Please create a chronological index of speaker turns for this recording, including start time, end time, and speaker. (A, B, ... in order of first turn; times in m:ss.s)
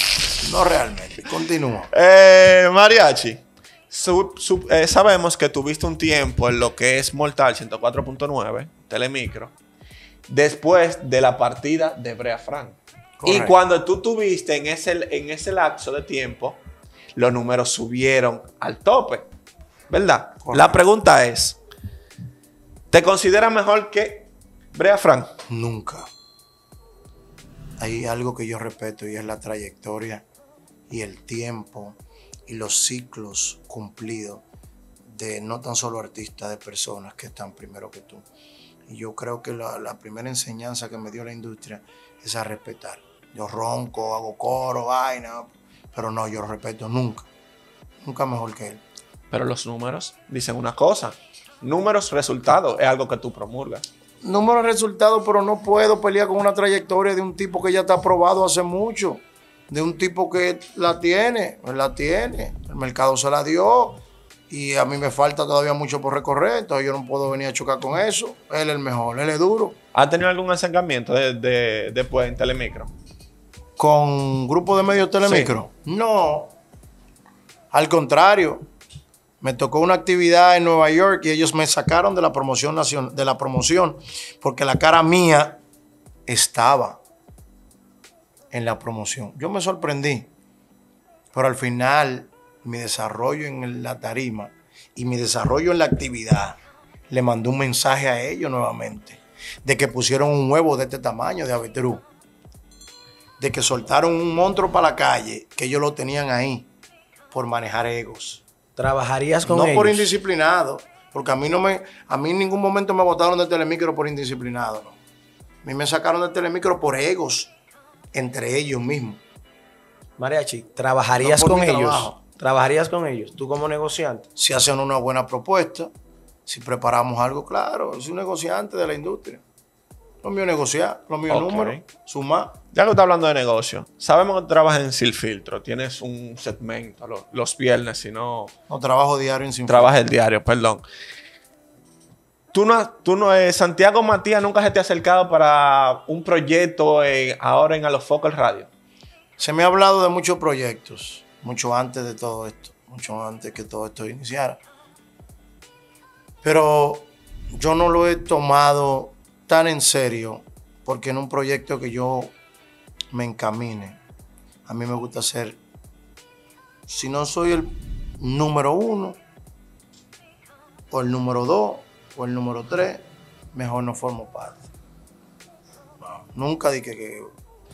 0:00.4-0:01.9 A
0:01.9-0:09.5 B
0:10.3-0:16.6 B
0:13.2-0:13.6 A
0:17.2-0:19.3 B
0:19.9-0:21.6 B
0:20.4-0:20.8 A
0:22.9-0:25.3 B
0:25.5-0:26.1 A
0:27.8-0:30.2 A
0:30.9-0:34.4 A
0:35.1-0:38.3 A
0:38.9-0:47.3 A
0:48.0-0:48.8 A
0:49.3-0:53.8 B
0:54.2-1:09.8 A
1:09.9-1:12.9 B
1:13.8-1:16.6 A
1:15.2-1:15.5 B
1:17.7-1:18.6 A
1:19.4-1:25.6 A
1:26.3-1:27.0 A
1:28.5-1:30.3 A
1:31.3-1:36.6 A
1:37.1-1:42.0 A
1:43.4-1:46.7 A
1:47.3-1:48.4 A
1:48.8-1:50.1 C
1:49.4-1:55.0 A
1:55.6-1:57.5 A
1:58.1-1:59.2 A
2:00.2-2:04.3 C
2:01.2-2:02.2 A
2:04.4-2:05.9 A
2:06.5-2:09.4 A
2:10.2-2:12.6 A
2:11.3-2:11.8 B
2:12.7-2:18.5 B
2:18.7-2:19.9 A
2:19.7-2:20.8 B
2:22.5-2:28.7 B
2:29.4-2:34.6 A
2:36.4-2:42.3 A
2:43.1-2:44.0 A
2:44.7-2:45.6 A
2:46.9-2:49.2 A
2:50.9-2:54.7 A
2:56.0-2:57.3 A